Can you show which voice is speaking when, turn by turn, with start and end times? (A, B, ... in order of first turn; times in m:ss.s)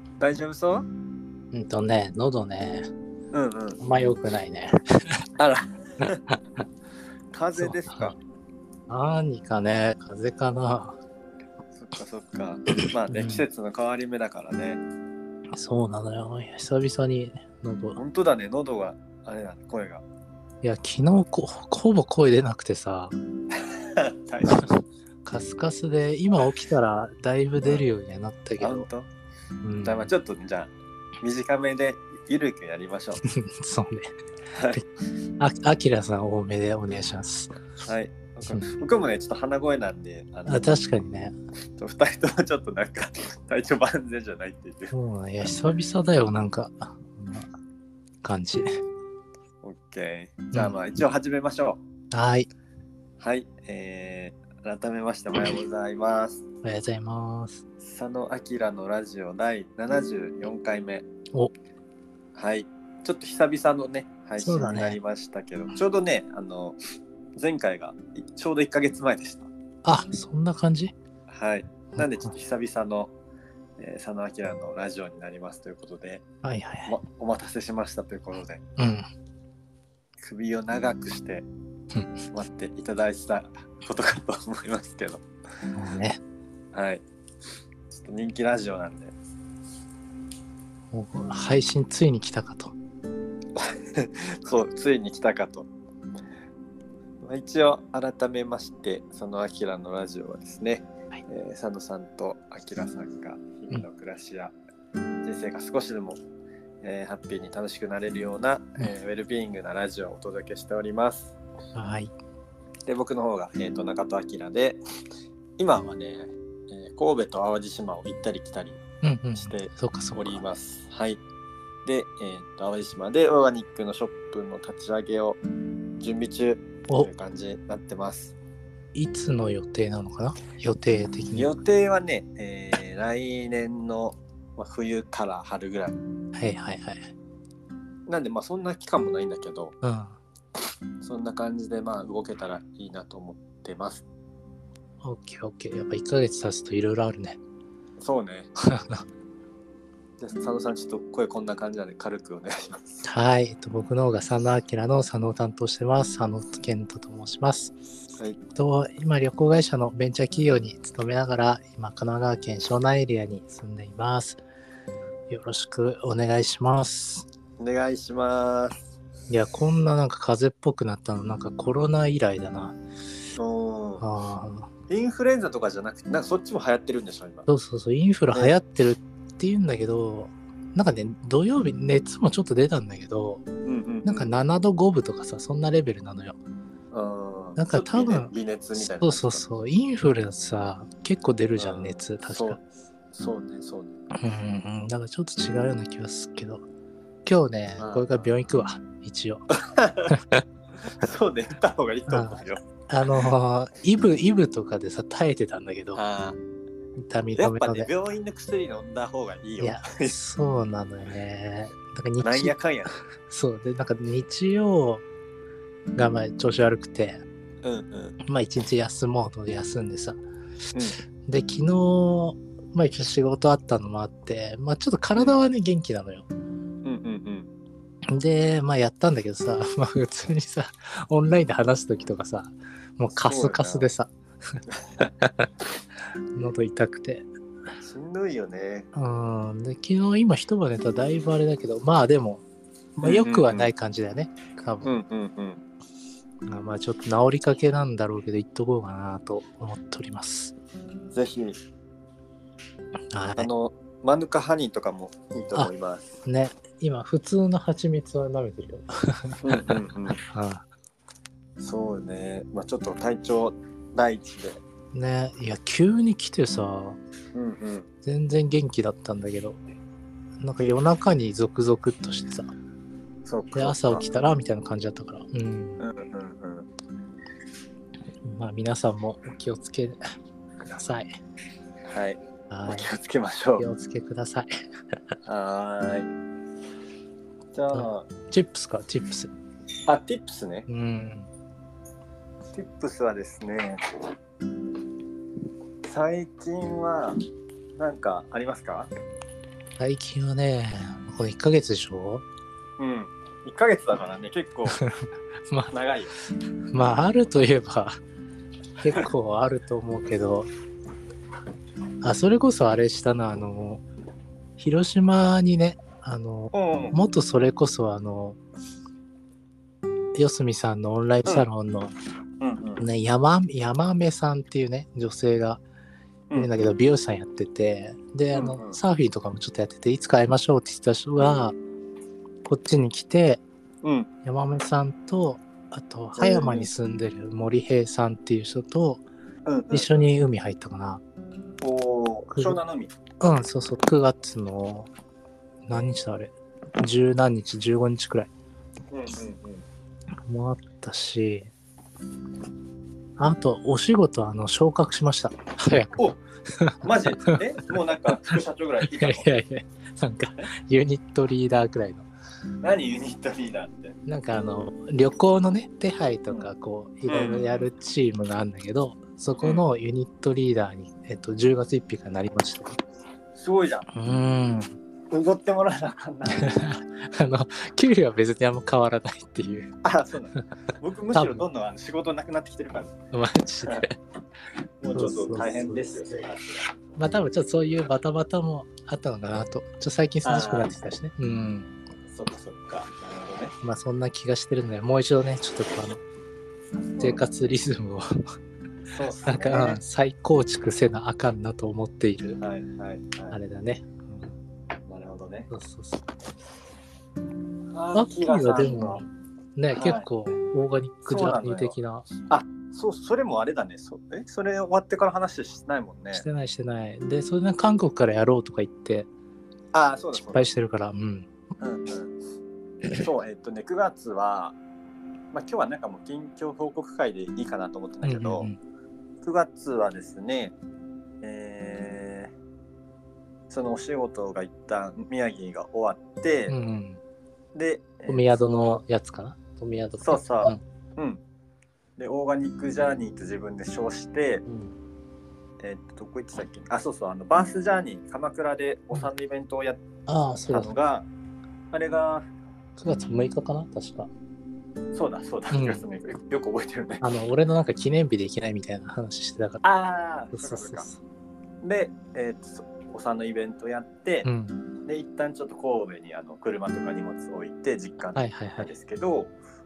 0:00.2-0:00.9 A
0:01.5-0:02.9 B
0:03.3-0:03.8 A
0:03.8-0:05.2 B
0:05.4-0:06.2 A
0:07.3-0:08.2 A
0:07.6-0:08.2 B
0:08.9-0:11.0 B
0:11.7-0:14.8 A
0:13.1-0:13.4 B
0:15.5-0:18.0 B
0:18.0-0:20.0 A
0:20.6-0:23.1 B
0:23.5-0:24.8 A
0:25.2-0:28.9 B
0:27.6-0:27.8 A
0:28.6-0:29.1 A
0:29.6-0:30.1 B
0:29.8-0:33.2 A
0:33.2-0:34.1 B
0:34.5-0:34.8 A
0:35.4-0:37.6 B
0:37.8-0:40.7 A
0:40.4-0:41.4 B
0:41.8-0:44.9 A
0:44.9-0:47.5 B
0:48.2-0:48.7 B
0:49.6-0:51.8 A
0:52.1-0:52.5 B
0:53.2-0:56.4 A
0:56.6-0:57.6 B
0:57.8-1:01.0 A
1:02.3-1:06.8 A
1:04.4-1:05.0 B
1:07.4-1:09.5 A
1:09.8-1:10.9 B
1:11.3-1:13.1 A
1:13.8-1:16.2 A
1:16.4-1:16.9 B
1:16.8-1:18.6 A
1:18.8-1:19.0 B
1:20.2-1:21.5 A
1:22.3-1:25.2 A
1:25.7-1:26.2 B
1:26.7-1:27.0 A
1:27.9-1:29.1 A
1:30.9-1:32.7 B
1:33.6-1:35.7 A
1:37.2-1:44.5 A
1:45.2-1:46.2 A
1:46.8-1:51.3 A
1:51.7-1:52.1 B
1:52.9-1:54.8 A
1:55.6-1:58.8 A
1:59.0-2:00.4 B
1:59.4-2:01.2 A
2:01.8-2:05.4 A
2:06.0-2:08.3 A
2:08.9-2:11.5 B
2:11.3-2:16.0 A
2:16.3-2:17.1 B
2:18.1-2:19.7 A
2:19.8-2:20.2 B
2:21.0-2:24.0 A
2:25.0-2:27.4 B
2:28.0-2:28.5 A
2:28.6-2:29.0 B
2:30.2-2:33.0 A
2:33.0-2:37.8 B
2:38.5-2:44.4 B
2:45.3-2:47.3 B
2:47.6-2:48.8 A
2:49.3-2:52.7 B
2:53.3-2:54.0 A
2:54.0-2:54.7 B
2:54.9-2:57.5 A
2:57.5-3:03.4 B
3:03.6-3:04.4 A
3:04.0-3:06.4 B
3:06.9-3:09.4 A
3:07.6-3:12.6 B
3:11.6-3:14.0 A
3:14.1-3:16.6 B
3:17.2-3:19.5 B
3:17.8-3:18.3 A
3:19.5-3:20.2 A
3:20.1-3:20.4 B
3:20.8-3:22.6 A
3:22.1-3:26.0 B
3:25.9-3:26.4 A
3:27.0-3:27.9 B
3:27.4-3:30.2 A
3:29.6-3:32.5 B
3:32.2-3:33.0 A
3:33.3-3:35.0 B
3:35.9-3:37.2 B
3:37.6-3:38.2 A
3:38.2-3:40.2 B
3:40.7-3:41.0 A
3:41.2-3:46.3 B
3:46.8-3:47.5 A
3:48.1-3:54.6 B
3:53.1-3:53.9 A
3:54.7-3:55.1 A
3:55.2-3:55.5 B
3:56.3-3:57.3 B
3:57.8-3:58.9 A
3:58.9-4:02.4 B
4:03.0-4:03.7 A
4:03.0-4:04.9 B
4:04.8-4:05.6 A
4:06.4-4:10.6 B
4:11.1-4:11.6 A
4:13.1-4:13.5 B
4:13.4-4:16.1 A
4:16.2-4:20.6 B
4:19.4-4:20.2 A
4:21.6-4:24.6 A
4:24.9-4:27.0 B
4:27.3-4:27.9 A
4:28.0-4:29.6 B
4:30.4-4:32.5 B
4:33.2-4:34.0 A
4:33.5-4:35.8 B
4:35.8-4:36.7 A
4:38.2-4:40.0 B
4:40.6-4:41.2 B
4:41.9-4:43.6 A
4:42.5-4:42.9 B
4:43.6-4:44.5 B
4:45.2-4:46.1 A
4:47.5-4:48.1 A
4:47.7-4:49.3 B
4:49.8-4:50.7 A
4:50.7-4:51.3 B
4:52.5-4:54.0 A
4:55.8-4:57.2 A
4:57.8-4:58.9 A
4:59.8-5:02.2 B
5:02.8-5:04.8 A
5:04.7-5:05.7 B
5:05.7-5:06.2 A
5:06.7-5:08.0 B
5:08.8-5:10.5 B
5:12.0-5:13.8 B
5:14.6-5:18.4 B
5:16.5-5:17.0 A
5:20.1-5:22.0 B
5:22.4-5:22.8 A
5:22.8-5:25.6 B
5:26.3-5:31.5 B
5:28.3-5:28.8 A
5:32.4-5:33.4 B
5:33.8-5:34.1 A
5:34.2-5:39.0 B
5:36.2-5:36.7 A
5:39.4-5:40.1 A
5:39.7-5:41.0 B
5:41.6-5:42.9 A
5:42.3-5:42.6 B
5:43.2-5:44.9 B
5:45.7-5:48.3 B
5:48.9-5:49.6 A
5:50.2-5:51.5 B
5:53.2-5:57.4 B
5:56.8-5:59.3 A
5:58.9-6:02.0 B
6:02.6-6:03.9 A
6:04.0-6:12.8 B
6:07.1-6:07.7 A
6:09.4-6:09.6 A
6:13.3-6:13.9 A
6:13.9-6:14.7 B
6:15.1-6:16.7 A
6:16.3-6:19.7 B
6:19.8-6:22.9 A
6:21.1-6:21.4 B
6:23.1-6:24.0 B
6:24.8-6:26.8 A
6:24.9-6:26.3 B
6:27.0-6:31.7 B
6:30.2-6:30.8 A
6:32.1-6:33.5 A
6:33.6-6:36.0 B
6:36.9-6:37.2 A
6:37.0-6:38.1 B
6:38.9-6:39.8 A
6:39.3-6:42.4 B
6:42.4-6:43.4 A
6:43.3-6:44.3 B
6:44.9-6:45.5 A
6:45.5-6:46.0 B
6:47.7-6:49.0 A
6:47.9-6:52.1 B
6:49.7-6:50.1 A
6:51.0-6:51.8 A
6:52.3-6:56.2 A
6:56.1-6:59.1 B
6:59.7-7:00.5 A
7:00.1-7:01.3 B
7:01.6-7:02.2 A
7:02.9-7:04.6 A
7:05.3-7:08.5 A
7:08.0-7:08.6 B
7:09.2-7:10.5 A
7:11.2-7:12.3 A
7:13.5-7:16.5 A
7:16.5-7:17.0 B
7:17.5-7:18.8 A
7:18.1-7:20.6 B
7:20.0-7:21.2 A
7:22.0-7:24.4 A
7:24.5-7:24.7 B
7:25.6-7:29.8 A
7:30.1-7:30.7 B
7:30.5-7:31.1 A
7:31.7-7:32.3 A
7:32.8-7:34.1 B
7:34.9-7:37.0 A
7:35.5-7:35.8 B
7:37.0-7:39.6 B
7:39.6-7:40.9 A
7:40.3-7:41.0 B
7:41.6-7:44.3 A
7:44.2-7:44.6 B
7:44.8-7:49.3 A
7:48.2-7:48.7 B